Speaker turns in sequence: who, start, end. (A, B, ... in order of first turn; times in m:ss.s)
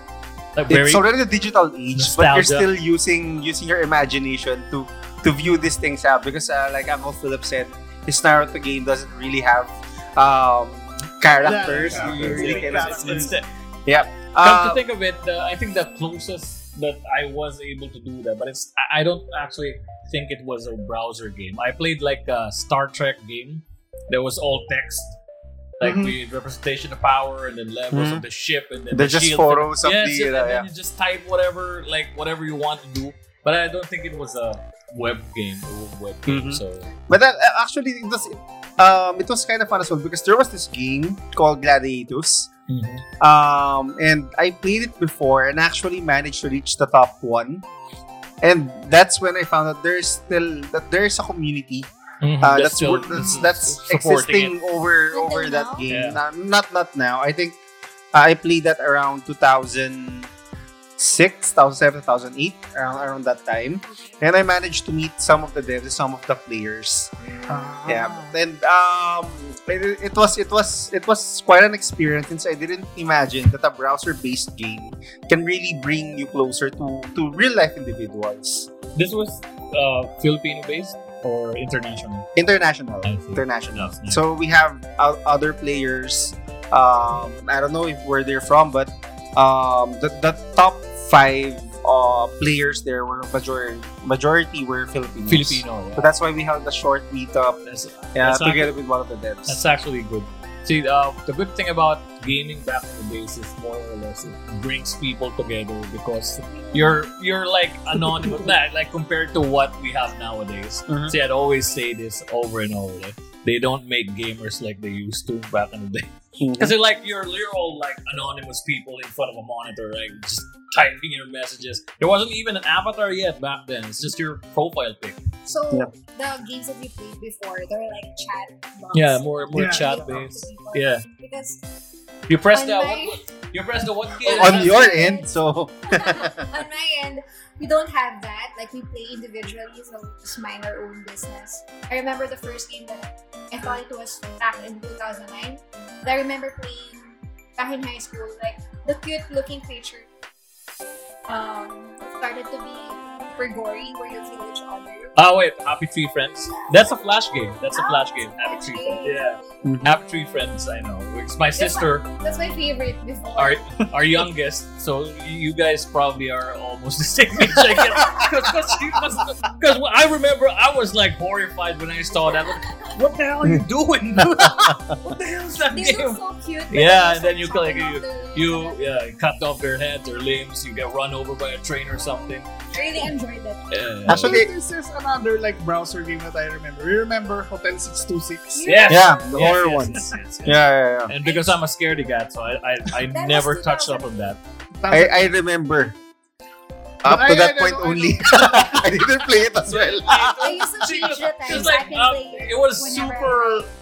0:00.6-0:01.0 A
0:00.7-0:13.3 B
0:02.0-0:02.7 A
0:11.4-0:13.3 C
0:11.6-0:13.4 A
0:13.8-0:14.8 B
0:14.0-0:25.2 A
0:25.8-0:36.9 A
0:25.8-0:26.2 C
0:27.9-0:28.2 B
0:28.9-0:30.6 B
0:36.3-0:42.5 B
0:42.7-0:43.0 A
0:43.2-0:47.6 B
0:48.4-0:51.9 B
0:52.2-0:54.5 A
0:52.4-0:57.6 B
0:55.1-0:55.9 D
0:55.9-0:56.2 A
0:58.1-1:00.3 B
1:01.0-1:07.1 B
1:07.5-1:08.3 C
1:07.8-1:18.7 B
1:18.9-1:22.3 A
1:22.4-1:37.6 B
1:23.0-1:24.2 A
1:35.3-1:36.1 A
1:37.6-1:38.7 A
1:38.1-1:39.6 B
1:39.5-2:05.2 A
1:46.5-1:47.0 D
1:50.9-1:51.1 B
1:56.4-1:56.7 B
2:05.4-2:11.6 D
2:08.9-2:10.2 C
2:08.9-2:11.0 A
2:12.3-2:14.9 A
2:12.5-2:13.2 D
2:14.2-2:15.3 D
2:14.2-2:16.5 B
2:15.9-2:30.1 D
2:31.3-2:35.2 D
2:35.2-2:42.0 A
2:36.5-2:39.7 D
2:39.6-2:40.0 B
2:41.5-2:43.6 D
2:43.4-2:56.2 A
2:48.0-2:48.3 D
2:52.2-2:52.9 D
2:54.4-2:54.9 B
2:55.7-2:58.8 D
2:56.7-3:02.5 A
3:02.7-3:03.7 D
3:03.7-3:04.4 A
3:04.1-3:04.5 B
3:04.1-3:08.7 C
3:08.5-3:09.6 D
3:08.6-3:14.4 A
3:08.9-3:11.1 B
3:11.2-3:11.6 D
3:13.1-3:14.3 D
3:14.8-3:15.3 C
3:14.9-3:15.9 B
3:17.0-3:20.4 B
3:17.0-3:19.1 C
3:19.6-3:23.6 A
3:20.4-3:23.7 D
3:21.0-3:21.7 C